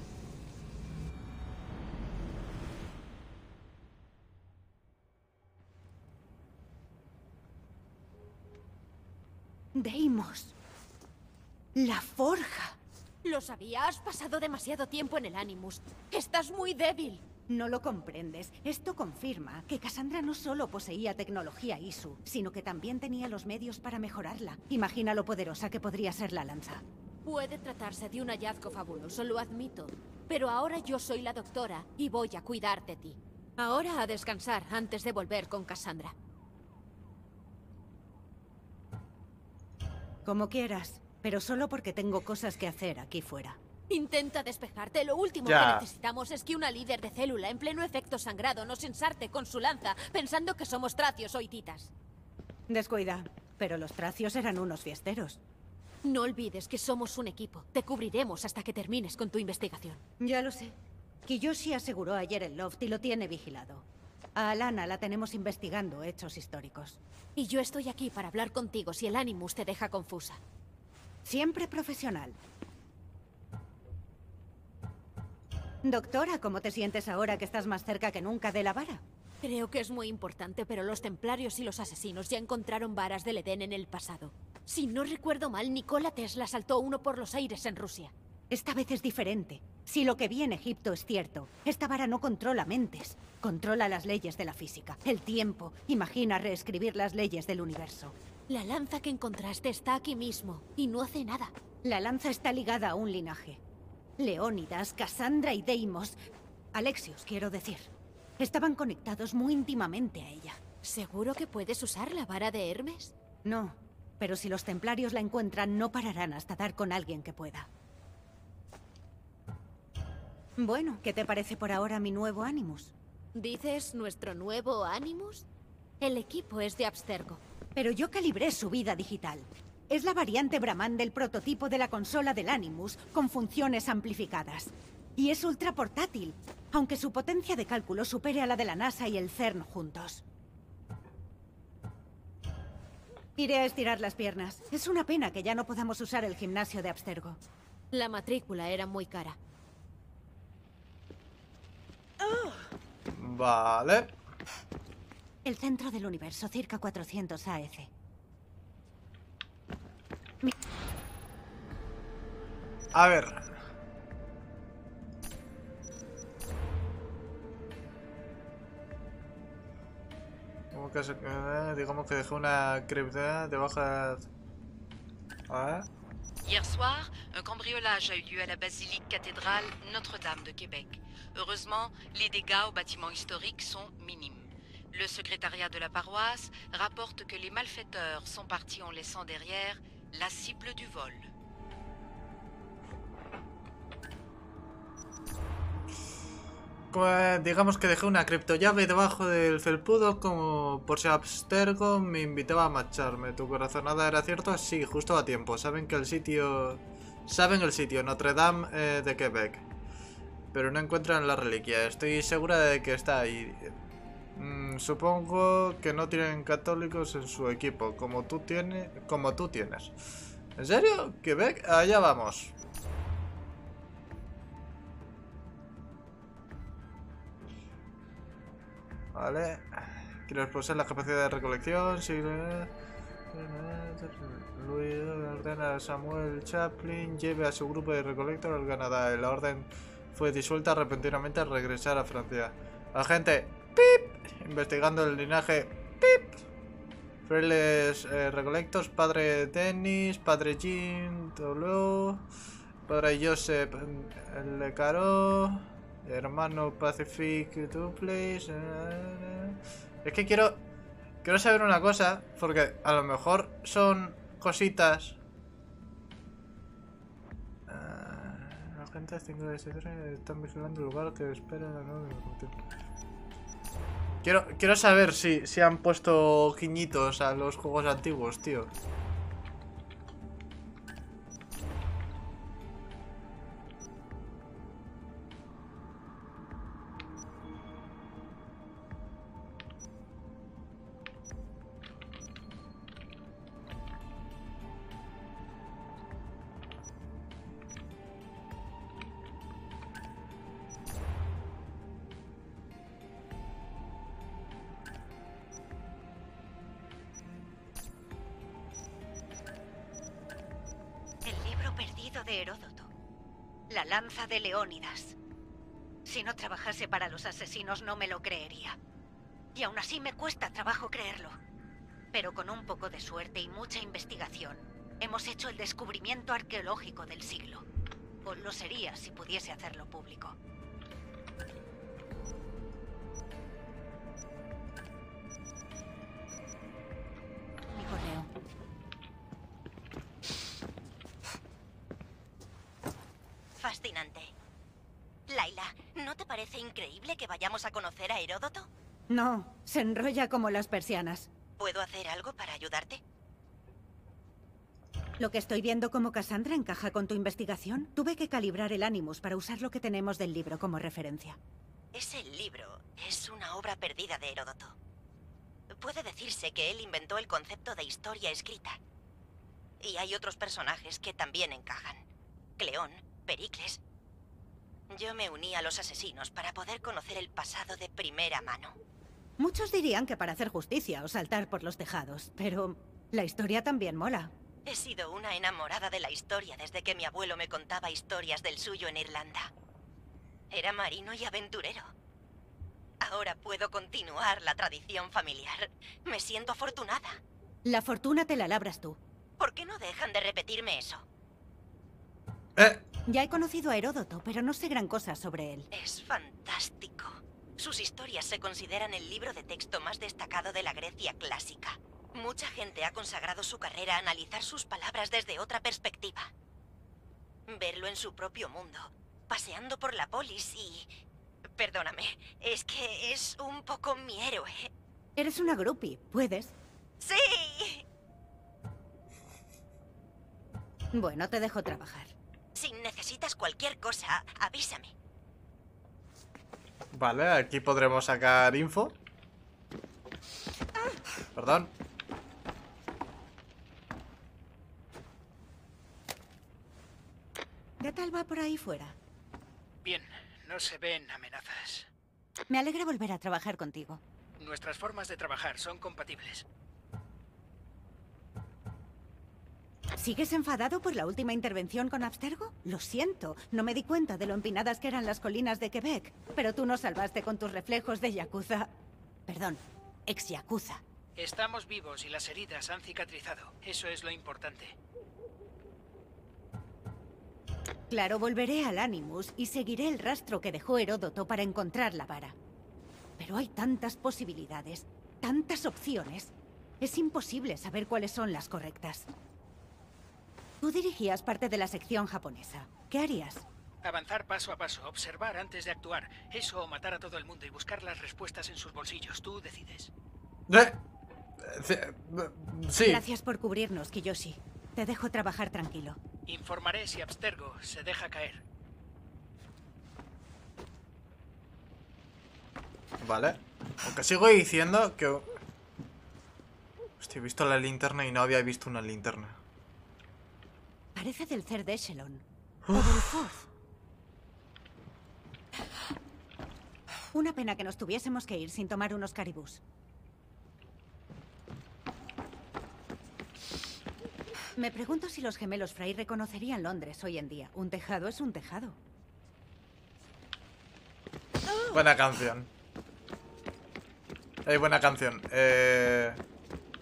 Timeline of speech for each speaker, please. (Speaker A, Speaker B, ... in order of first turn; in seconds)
Speaker A: 9.7-10.5, 11.7-12.8, 17.5-26.8, 40.2-43.6, 52.7-55.4, 60.2-63.8, 64.3-67.0, 71.2-72.4, 75.8-79.0, 88.5-98.1, 101.8-103.6, 104.2-106.2, 106.7-110.6, 113.4-117.7, 120.6-122.9, 127.8-140.2, 143.4-147.4, 155.4-157.9, 311.2-312.9, 313.7-315.2, 316.0-318.8, 319.5-321.4, 322.1-327.6, 328.2-330.4, 337.7-338.3, 349.1-351.3, 355.2-361.4, 379.4-384.3, 397.6-399.0, 403.1-405.7, 425.2-426.5, 430.9-432.1, 447.8-449.0, 452.5-454.0, 459.9-470.8, 477.9-482.4, 483.2-489.1, 490.6-493.4, 502.8-506.0, 520.9-523.4, 527.1-529.6, 534.5-538.8
Speaker B: 13.2-17.2, 27.2-36.1, 43.9-51.9, 56.0-60.0, 67.3-70.4, 79.4-88.1, 98.5-101.5, 110.8-113.1, 123.3-125.5, 126.0-127.4, 147.9-149.4
Speaker C: 45.4-45.9, 153.1-154.1, 162.9-163.5, 170.7-174.3, 175.5-175.9, 196.9-209.6, 210.5-213.7, 214.3-219.9, 220.6-222.5, 229.1-232.7, 233.3-246.3, 247.3-252.2, 252.9-260.6, 261.2-265.2, 267.7-272.5, 274.2-278.7, 402.6-402.8, 436.9-439.0, 441.3-441.7, 500.5-500.8, 501.4-503.0, 513.0-515.3, 517.0-519.4, 522.7-523.0, 541.7-542.5, 544.4-546.2
Speaker D: 176.4-191.3
Speaker E: 343.6-344.3, 345.3-348.7, 351.6-353.0, 361.9-364.7, 365.7-368.8, 369.8-372.1, 372.6-373.8, 374.9-378.7, 384.6-389.5, 390.5-391.9, 393.0-397.2, 399.4-401.0, 405.7-416.3, 417.5-420.9, 421.6-424.7, 427.0-427.8, 432.5-434.9
Speaker F: 449.8-451.9, 454.4-456.4, 471.1-474.8, 493.8-499.9, 506.3-508.4